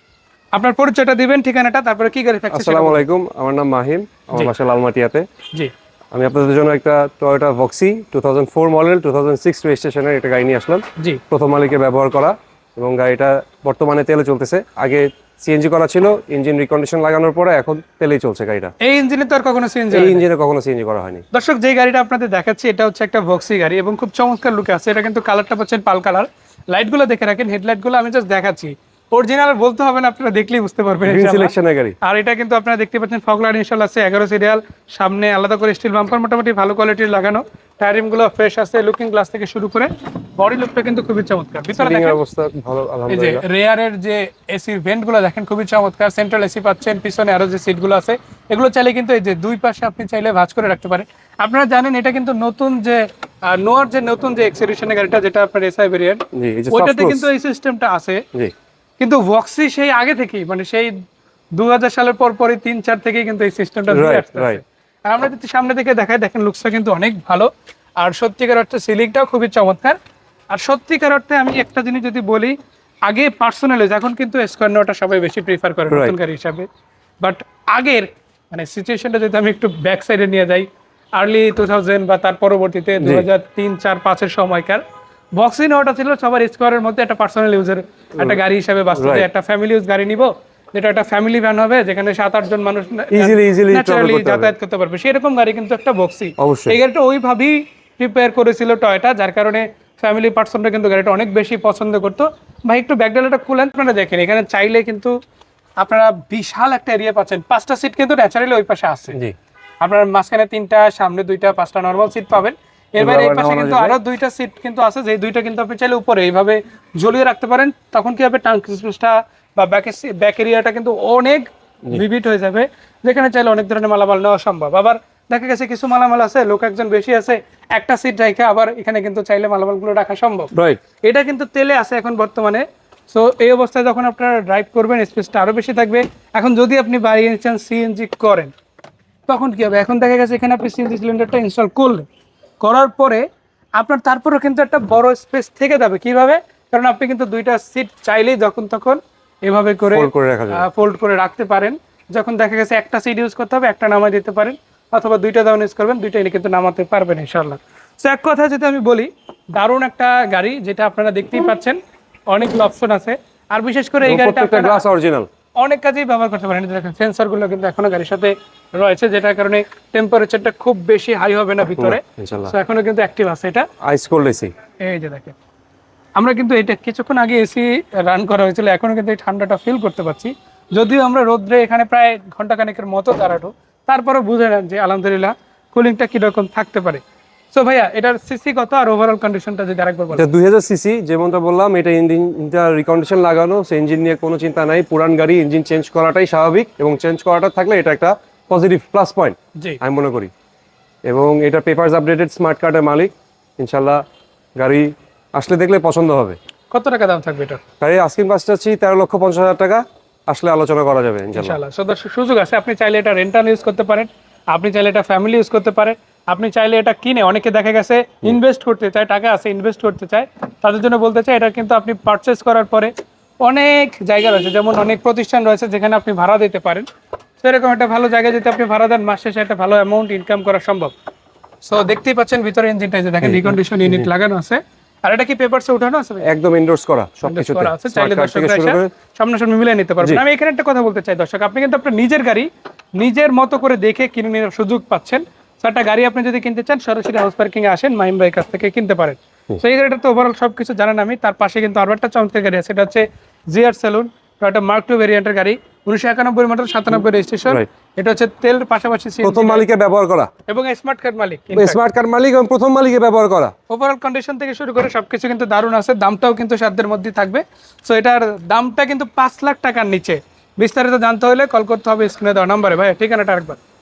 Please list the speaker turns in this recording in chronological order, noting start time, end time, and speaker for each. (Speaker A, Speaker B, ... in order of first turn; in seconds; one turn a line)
Speaker A: 0.5-3.0
Speaker B: 2.5-5.3
Speaker B: 6.1-18.7
Speaker A: 18.8-20.2
Speaker B: 19.9-21.2
Speaker A: 21.3-42.2
Speaker B: 31.1-32.0
Speaker B: 41.7-43.4
Speaker A: 43.1-58.2
Speaker B: 56.3-57.3
Speaker A: 59.0-60.9
Speaker A: 61.5-70.0
Speaker B: 63.9-64.6
Speaker A: 70.5-72.5
Speaker A: 73.1-76.7
Speaker B: 75.9-76.1
Speaker A: 77.2-84.8
Speaker B: 83.0-83.3
Speaker A: 85.3-105.1
Speaker B: 89.0-89.3
Speaker B: 93.1-94.5
Speaker B: 96.4-96.8
Speaker A: 105.8-109.2
Speaker A: 109.8-138.5
Speaker B: 113.0-114.0
Speaker B: 130.5-130.8
Speaker A: 139.3-142.1
Speaker A: 142.6-143.2
Speaker A: 143.8-164.8
Speaker B: 149.9-150.7
Speaker B: 164.0-165.3
Speaker A: 165.6-173.7
Speaker B: 171.8-172.5
Speaker B: 173.8-174.5
Speaker A: 174.8-175.3
Speaker A: 176.2-190.2
Speaker B: 190.1-200.3
Speaker B: 201.1-204.0
Speaker B: 204.6-206.4
Speaker A: 206.7-207.6
Speaker B: 207.8-211.6
Speaker A: 211.3-226.9
Speaker A: 227.4-230.9
Speaker A: 231.6-236.3
Speaker B: 233.2-234.1
Speaker B: 236.2-238.9
Speaker A: 237.2-259.6
Speaker B: 259.2-260.3
Speaker A: 260.5-261.8
Speaker B: 261.5-263.5
Speaker A: 263.7-273.6